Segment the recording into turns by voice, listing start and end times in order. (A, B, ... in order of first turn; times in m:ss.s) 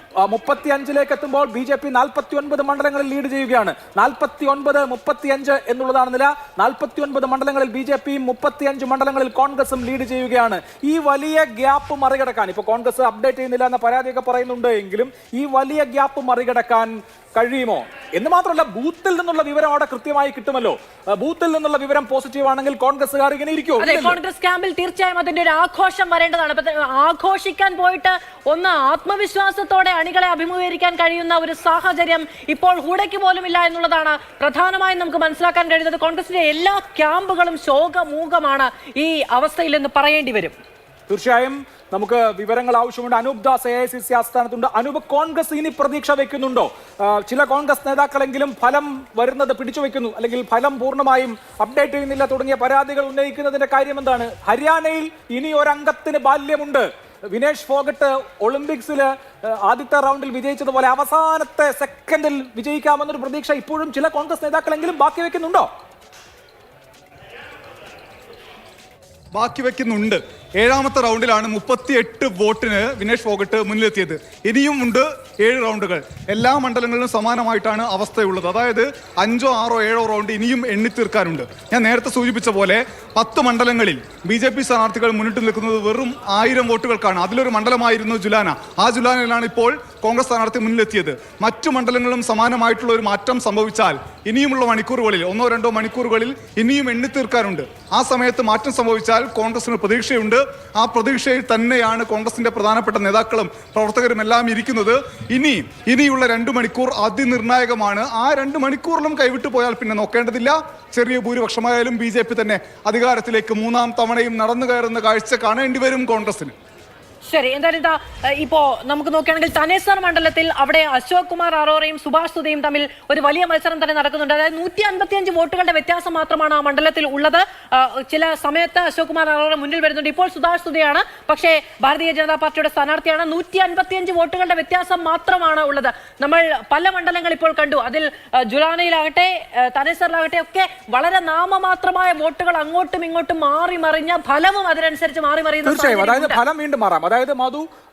0:00.2-0:24.2 A
0:23.8-0:40.6 B
0:41.1-1:05.7 A
1:09.3-1:56.5 C
1:57.2-2:26.4 B
2:25.6-2:27.6 A